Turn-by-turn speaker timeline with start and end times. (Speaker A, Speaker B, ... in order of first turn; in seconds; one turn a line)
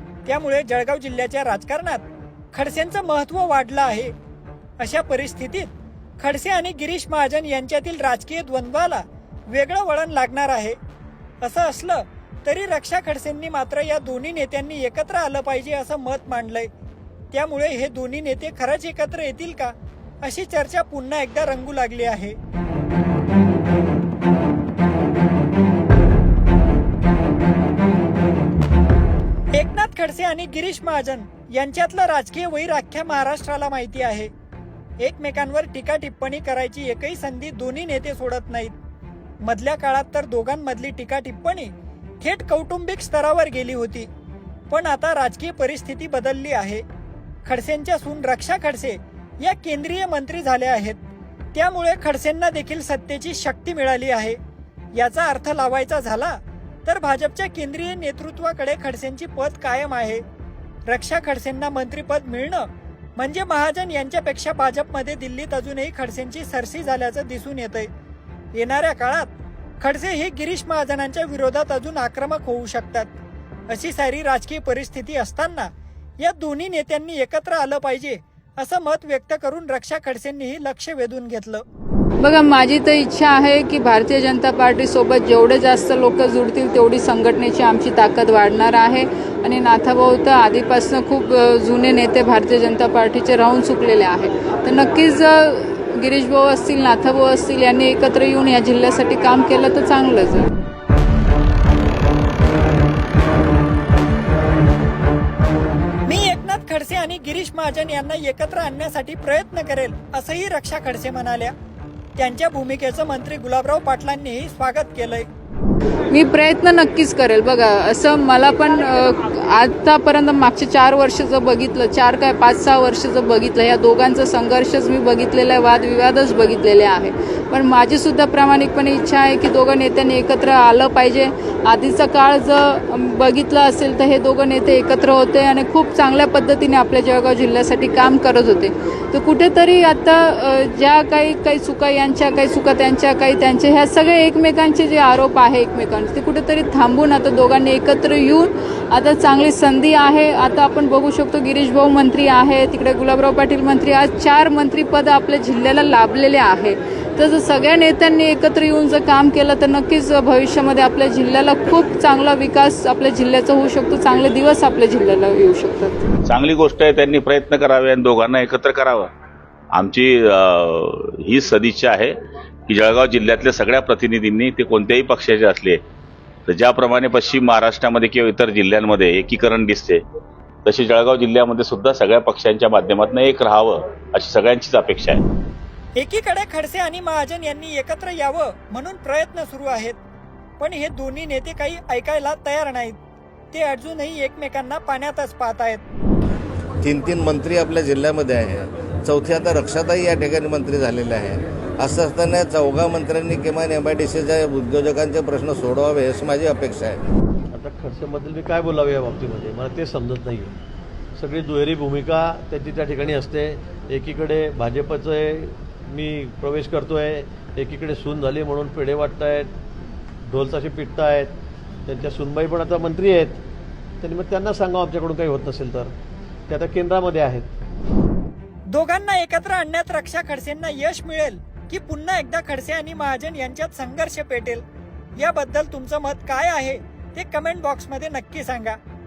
Speaker A: 0.3-4.1
Speaker A: 4.8-10.8
Speaker A: 11.4-16.7
Speaker A: 17.3-22.4
Speaker A: 29.6-34.3
Speaker A: 35.0-38.8
Speaker A: 39.4-44.1
Speaker A: 44.7-46.8
Speaker A: 47.5-51.0
Speaker A: 51.5-54.4
Speaker A: 54.9-60.2
Speaker A: 60.9-67.9
Speaker A: 68.5-73.1
Speaker A: 73.7-81.7
Speaker B: 82.2-100.5
Speaker A: 106.1-111.5
Speaker A: 112.2-115.3
Speaker B: 116.1-166.1
Speaker C: 166.2-169.1
Speaker C: 169.7-172.1
Speaker C: 172.7-175.8
Speaker C: 176.5-180.0
Speaker C: 180.7-185.2
Speaker A: 186.0-190.0
Speaker A: 190.6-193.0
Speaker A: 193.5-195.8
Speaker D: 196.8-207.0
Speaker E: 207.5-210.6
Speaker E: 211.2-219.5
Speaker E: 220.3-221.4
Speaker E: 221.9-223.4
Speaker E: 224.0-225.9
Speaker E: 226.5-227.5
Speaker A: 228.7-234.6
Speaker A: 235.2-238.8